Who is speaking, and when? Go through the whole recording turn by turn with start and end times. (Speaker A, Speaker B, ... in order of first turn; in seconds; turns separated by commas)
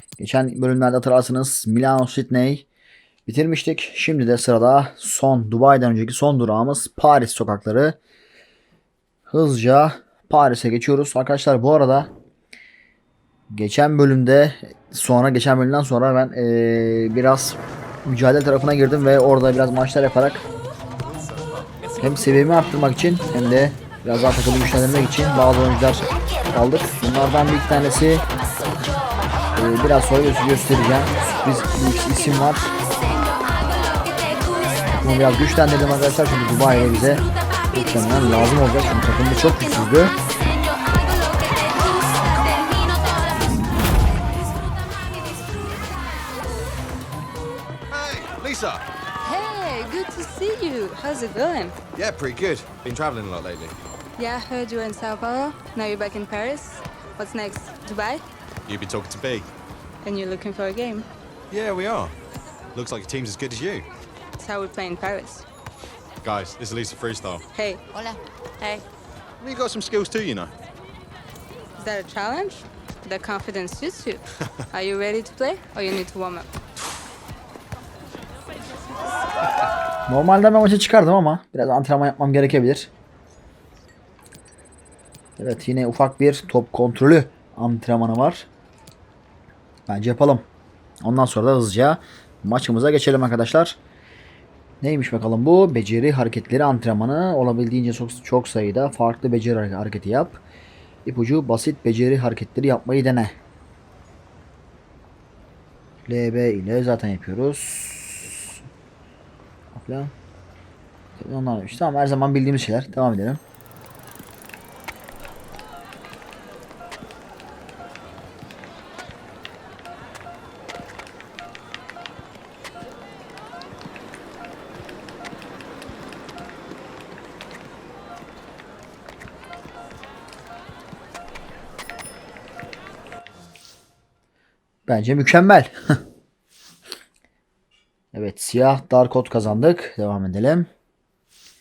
Speaker A: 0.2-2.7, Speaker A: 3.3-8.0, Speaker A: 9.3-12.1, Speaker A: 13.5-20.5, Speaker A: 22.0-28.2, Speaker A: 29.6-32.7, Speaker B: 33.5-34.6, Speaker A: 35.0-40.2, Speaker B: 40.5-43.3, Speaker C: 47.9-48.8, Speaker B: 49.2-51.8, Speaker C: 52.0-53.8, Speaker B: 54.2-58.2, Speaker C: 58.7-59.5, Speaker B: 60.0-61.1, Speaker C: 61.5-62.1, Speaker C: 62.8-63.9, Speaker B: 64.4-65.4, Speaker C: 66.2-67.4, Speaker B: 67.5-68.8, Speaker C: 69.4-70.5, Speaker B: 71.8-76.5, Speaker A: 80.1-82.9, Speaker A: 85.4-88.5, Speaker A: 89.9-90.5, Speaker A: 91.0-93.8, Speaker A: 94.8-100.4, Speaker A: 101.0-103.4, Speaker A: 106.1-108.6, Speaker A: 109.7-110.1, Speaker A: 111.2-113.4, Speaker A: 134.9-136.0, Speaker A: 138.1-140.7